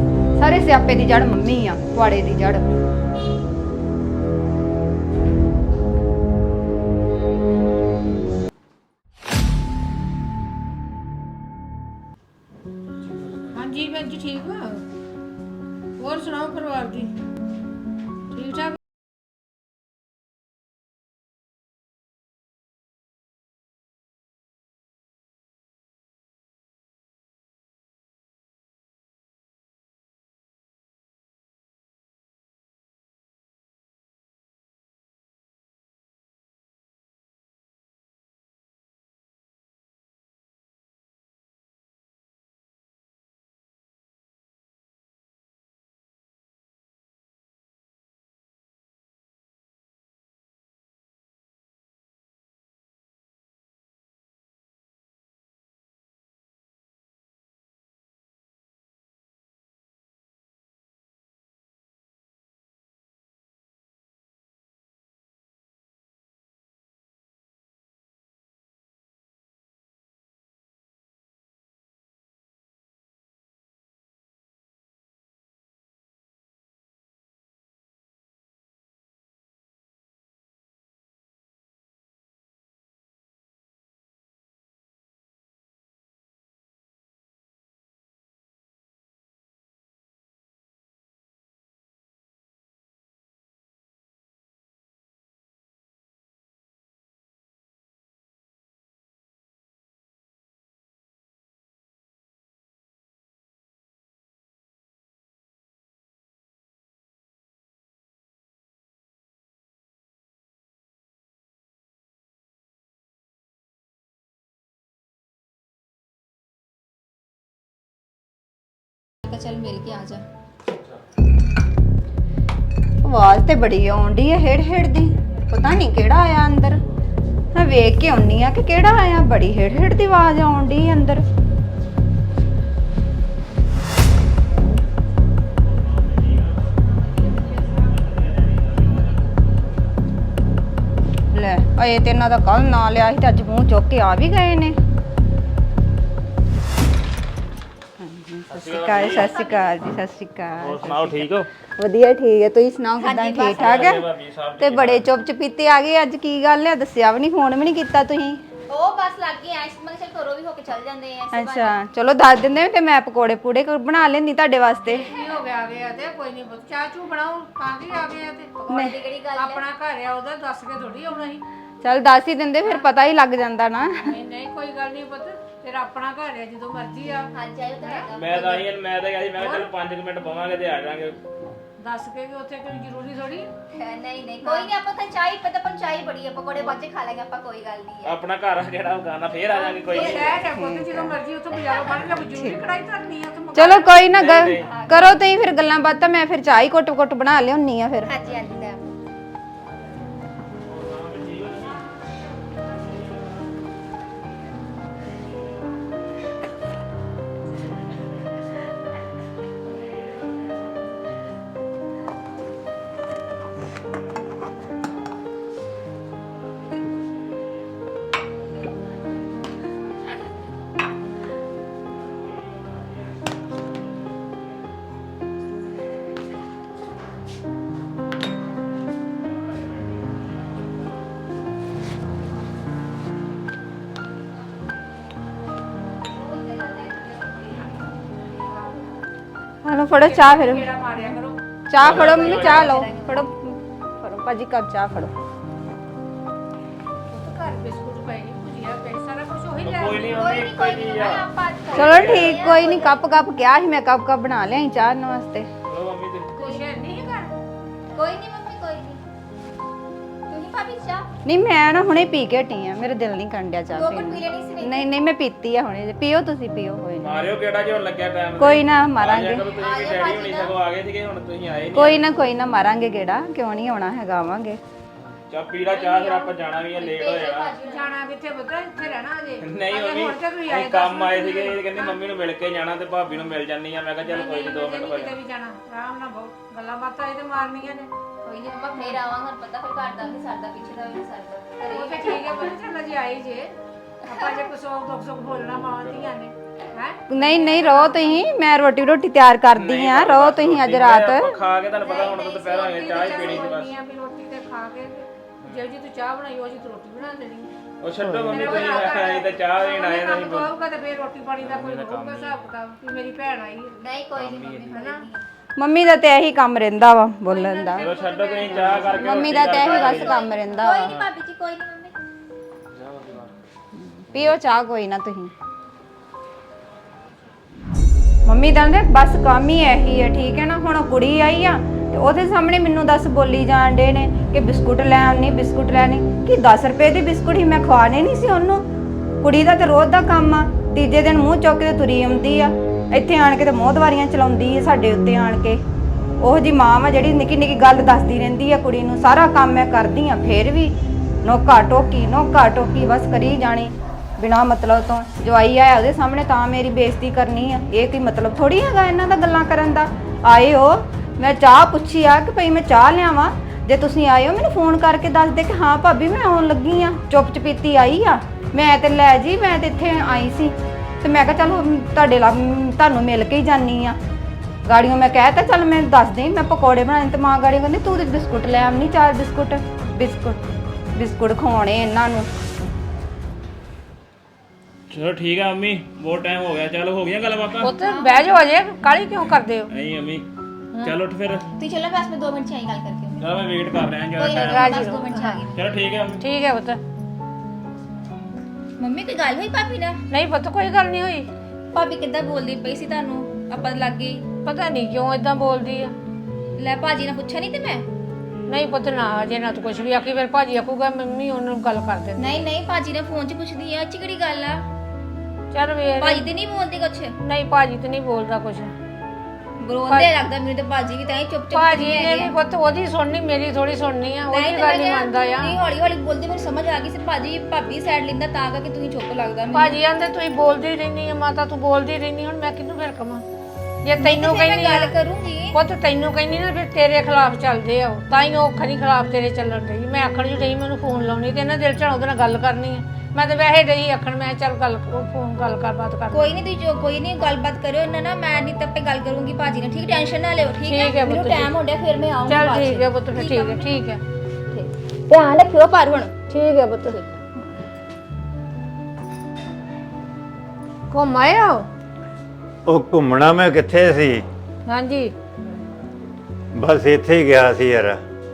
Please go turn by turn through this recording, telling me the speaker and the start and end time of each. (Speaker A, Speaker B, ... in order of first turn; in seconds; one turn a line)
Speaker A: 0.4-2.6
Speaker B: 13.5-14.8
Speaker B: 16.0-17.1
Speaker B: 18.3-18.8
Speaker C: 119.2-120.2
Speaker A: 123.0-126.8
Speaker A: 127.5-131.2
Speaker D: 137.8-139.0
Speaker A: 141.3-144.8
Speaker A: 148.0-154.1
Speaker D: 148.5-149.4
Speaker C: 149.1-149.7
Speaker D: 150.6-151.5
Speaker C: 153.0-153.9
Speaker D: 153.4-155.1
Speaker A: 154.6-158.4
Speaker C: 158.7-161.7
Speaker A: 161.3-165.1
Speaker B: 164.9-168.5
Speaker C: 168.6-169.6
Speaker A: 168.7-168.9
Speaker B: 169.3-171.4
Speaker A: 171.8-174.1
Speaker B: 174.1-177.3
Speaker C: 177.3-178.7
Speaker D: 178.1-181.2
Speaker B: 179.4-179.7
Speaker B: 181.8-183.5
Speaker C: 183.8-188.2
Speaker B: 184.4-184.7
Speaker D: 188.0-190.3
Speaker C: 189.4-190.4
Speaker B: 189.9-194.0
Speaker A: 190.3-191.2
Speaker C: 191.5-192.1
Speaker A: 192.2-192.6
Speaker A: 193.5-198.1
Speaker D: 194.0-194.7
Speaker C: 194.6-195.1
Speaker C: 198.1-198.9
Speaker D: 200.7-201.7
Speaker C: 236.0-238.9
Speaker A: 239.6-240.7
Speaker B: 240.0-241.4
Speaker A: 241.7-245.1
Speaker D: 241.8-242.8
Speaker C: 241.8-243.2
Speaker B: 247.1-250.4
Speaker D: 249.6-252.4
Speaker C: 250.1-253.0
Speaker A: 251.7-255.5
Speaker D: 255.7-256.3
Speaker B: 256.4-257.3
Speaker C: 257.9-259.0
Speaker C: 260.3-261.1
Speaker A: 261.2-267.3
Speaker C: 263.7-264.9
Speaker D: 267.0-272.0
Speaker A: 268.4-269.4
Speaker C: 269.5-270.6
Speaker A: 271.7-274.6
Speaker D: 275.3-277.5
Speaker B: 275.7-276.3
Speaker C: 276.7-277.9
Speaker B: 277.6-281.9
Speaker D: 279.4-285.2
Speaker B: 284.0-287.9
Speaker C: 288.2-292.5
Speaker B: 291.7-298.2
Speaker C: 294.1-294.4
Speaker D: 295.6-296.1
Speaker A: 297.1-301.3
Speaker D: 299.5-303.7
Speaker C: 301.8-303.5
Speaker B: 301.8-307.5
Speaker D: 307.8-310.5
Speaker A: 308.0-308.6
Speaker B: 308.3-313.8
Speaker D: 311.4-312.4
Speaker C: 313.8-315.2
Speaker D: 314.1-314.7
Speaker B: 314.7-315.0
Speaker A: 315.6-317.9
Speaker B: 317.3-319.1
Speaker D: 317.8-320.2
Speaker C: 318.6-321.9
Speaker A: 318.9-320.9
Speaker D: 322.8-323.3
Speaker A: 324.1-325.3
Speaker A: 328.2-338.7
Speaker A: 339.2-345.6
Speaker A: 346.2-374.0
Speaker A: 374.6-380.4
Speaker A: 380.9-382.3
Speaker D: 384.9-387.8
Speaker B: 387.6-389.7
Speaker A: 387.8-388.2
Speaker D: 389.7-390.3
Speaker D: 390.8-391.4
Speaker C: 391.6-393.2
Speaker D: 393.2-394.8
Speaker C: 394.1-395.5
Speaker B: 394.5-395.4
Speaker D: 395.5-396.2
Speaker B: 396.2-396.8
Speaker C: 398.8-400.0
Speaker B: 400.1-401.3
Speaker C: 401.7-404.2
Speaker B: 404.4-405.9
Speaker C: 406.6-407.8
Speaker B: 408.5-412.2
Speaker C: 412.2-414.6
Speaker B: 415.5-416.3
Speaker C: 416.0-417.1
Speaker B: 417.2-418.7
Speaker C: 419.6-422.3
Speaker B: 421.5-425.6
Speaker C: 424.3-429.8
Speaker B: 429.5-433.2
Speaker B: 433.8-434.9
Speaker C: 434.0-435.6
Speaker B: 435.5-446.3
Speaker C: 446.1-453.8
Speaker B: 450.6-451.5
Speaker B: 452.3-454.0
Speaker C: 454.5-456.1
Speaker B: 456.3-457.0
Speaker B: 460.9-461.7
Speaker E: 462.6-464.2
Speaker B: 464.7-465.1
Speaker E: 466.5-468.0